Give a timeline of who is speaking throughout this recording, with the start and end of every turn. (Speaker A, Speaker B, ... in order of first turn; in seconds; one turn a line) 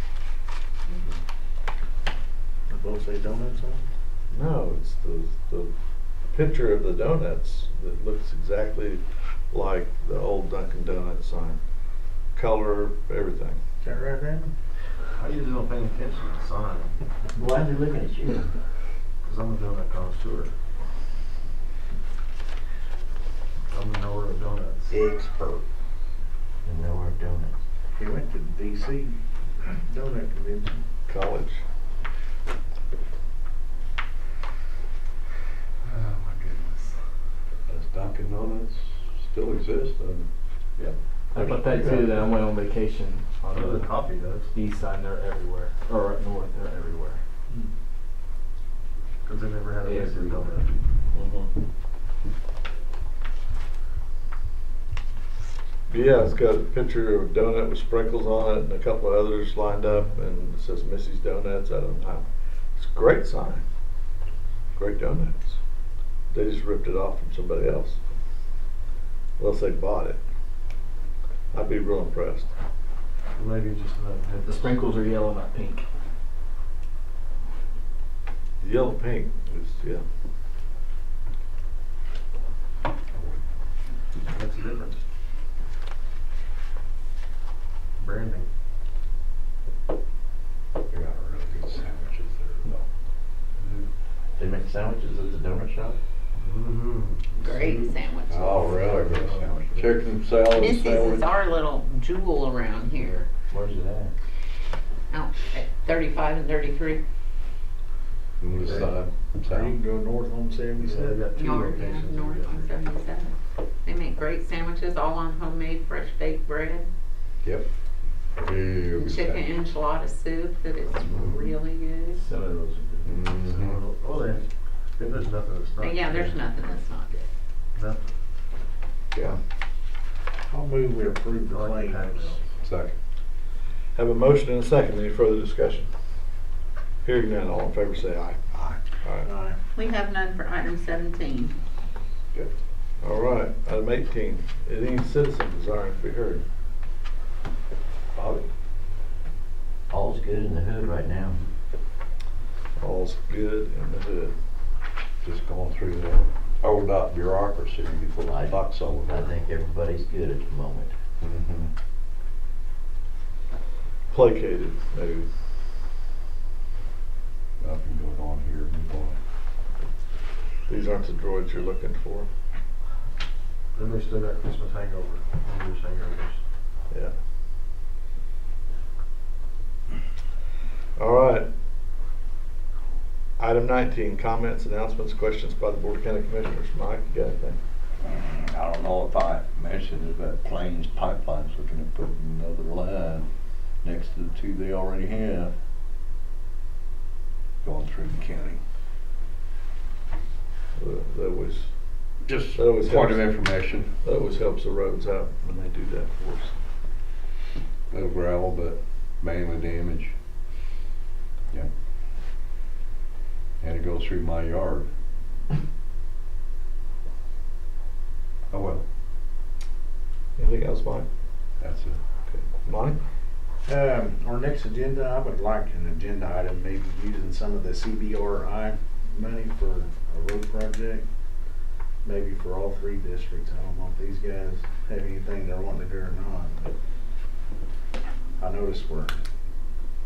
Speaker A: 2.7-3.9
Speaker B: 4.3-5.7
Speaker B: 6.3-11.6
Speaker B: 12.3-13.6
Speaker A: 13.8-14.5
Speaker C: 15.2-17.0
Speaker D: 17.4-18.5
Speaker C: 19.2-20.5
Speaker C: 23.7-25.0
Speaker D: 25.2-25.6
Speaker D: 26.6-27.6
Speaker A: 28.0-29.1
Speaker A: 29.7-30.9
Speaker B: 31.1-31.6
Speaker C: 35.9-36.8
Speaker E: 37.7-40.3
Speaker F: 41.3-44.0
Speaker B: 41.4-42.1
Speaker C: 43.4-44.5
Speaker F: 44.5-47.2
Speaker C: 49.2-50.8
Speaker F: 49.8-50.6
Speaker B: 51.1-51.5
Speaker B: 55.9-63.6
Speaker B: 64.8-65.6
Speaker B: 66.3-68.0
Speaker B: 69.4-70.2
Speaker B: 71.5-72.5
Speaker C: 73.4-74.7
Speaker F: 74.4-75.9
Speaker B: 78.6-80.0
Speaker C: 84.3-85.0
Speaker C: 88.0-88.5
Speaker E: 90.9-92.8
Speaker D: 94.4-96.0
Speaker C: 96.4-97.8
Speaker G: 97.4-98.8
Speaker E: 98.3-101.3
Speaker C: 98.6-100.0
Speaker G: 100.5-103.3
Speaker D: 103.5-104.1
Speaker G: 105.1-107.0
Speaker E: 108.4-109.7
Speaker C: 108.5-108.9
Speaker A: 108.6-108.9
Speaker A: 109.4-111.2
Speaker C: 110.8-112.7
Speaker G: 111.3-116.9
Speaker E: 118.4-119.5
Speaker G: 119.0-122.2
Speaker C: 121.2-121.5
Speaker F: 122.2-123.3
Speaker E: 123.0-123.8
Speaker C: 123.5-124.5
Speaker C: 125.0-126.4
Speaker G: 125.8-127.3
Speaker C: 127.8-128.1
Speaker A: 130.5-132.4
Speaker C: 131.4-132.4
Speaker E: 132.6-132.9
Speaker B: 133.9-135.9
Speaker B: 137.1-139.3
Speaker A: 139.2-139.6
Speaker G: 139.8-141.6
Speaker B: 143.0-146.4
Speaker E: 148.1-148.5
Speaker D: 149.9-151.4
Speaker B: 152.8-154.3
Speaker E: 155.2-159.3
Speaker D: 158.3-160.9
Speaker E: 161.2-161.7
Speaker B: 164.1-165.3
Speaker E: 167.6-169.2
Speaker B: 170.7-172.3
Speaker C: 173.8-176.4
Speaker B: 181.0-181.5
Speaker B: 183.4-187.6
Speaker E: 188.1-193.3
Speaker E: 193.8-195.5
Speaker E: 197.6-198.6
Speaker B: 200.8-201.7
Speaker E: 202.3-203.9
Speaker B: 202.5-203.2
Speaker B: 204.0-206.6
Speaker E: 207.9-210.2
Speaker E: 213.6-214.9
Speaker E: 218.5-218.8
Speaker B: 220.4-221.1
Speaker E: 221.6-222.0
Speaker B: 222.3-223.0
Speaker A: 223.7-231.0
Speaker A: 232.0-236.7
Speaker A: 238.4-239.2